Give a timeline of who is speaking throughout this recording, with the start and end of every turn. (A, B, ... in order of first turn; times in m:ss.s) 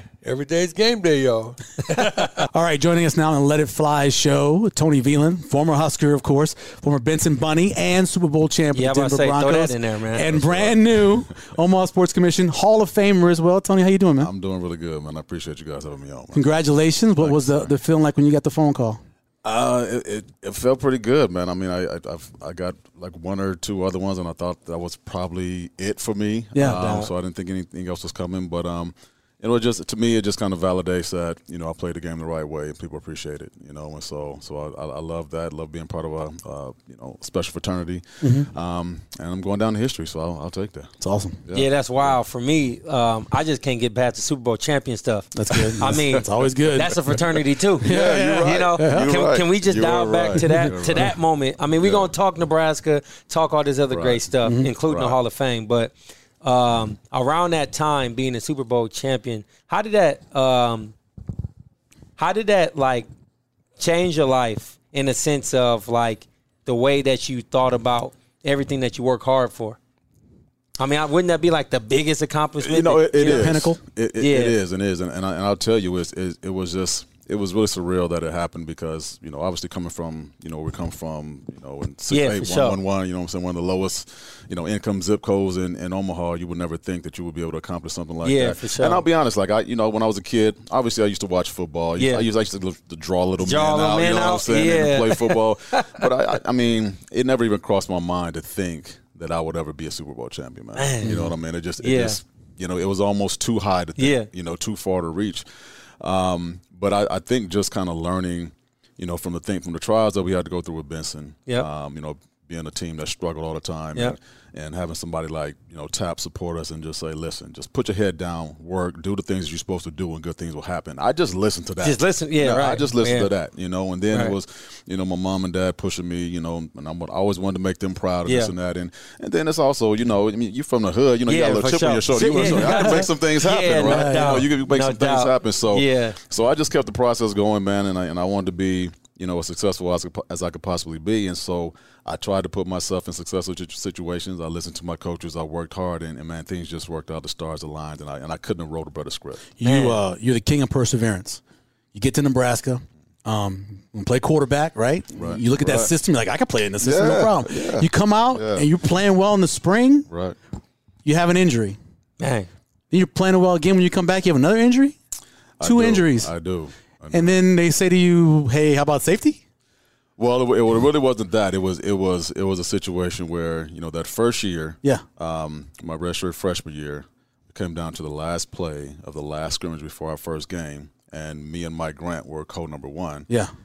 0:00.2-0:02.4 A
0:01.9-0:14.3 B
0:08.7-0:10.3 C
0:10.3-0:11.3 D
0:14.2-0:16.5 D
0:16.3-0:19.0 B
0:17.2-0:17.7 D
0:19.4-0:40.9 D
0:26.5-0:27.0 B
0:26.6-0:27.1 C
0:38.2-0:38.5 B
0:41.0-0:41.4 B
0:41.4-0:42.2 D
0:41.5-1:00.9 C
0:45.3-0:47.2 B
0:45.8-0:46.2 D
0:47.8-0:49.1 B
0:47.8-0:51.1 D
0:50.4-0:51.1 B
0:51.8-0:52.1 D
0:53.9-0:54.3 D
0:54.4-0:54.7 B
0:54.8-0:55.2 D
1:02.2-1:03.1 C
1:03.8-1:09.8 C
1:10.8-1:13.6 C
1:12.6-1:45.4 D
1:13.2-1:13.8 B
1:14.2-1:14.6 C
1:22.1-1:22.8 C
1:28.2-1:29.0 C
1:32.0-1:32.2 C
1:33.4-1:36.0 C
1:40.8-1:42.2 C
1:41.0-1:41.3 B
1:44.0-1:44.3 C
1:46.0-2:29.5 D
2:01.8-2:03.3 C
2:08.2-2:08.5 C
2:11.3-2:16.2 C
2:12.3-2:13.0 B
2:13.8-2:14.5 B
2:29.6-2:31.4 B
2:29.6-2:30.0 C
2:31.9-2:40.1 B
2:35.2-2:35.9 D
2:36.8-2:38.6 D
2:40.1-2:40.4 D
2:41.0-2:41.8 B
2:42.2-2:42.5 C
2:42.9-2:45.0 B
2:45.6-2:47.4 D
2:45.6-2:46.3 B
2:47.1-2:49.4 B
2:50.2-3:03.3 D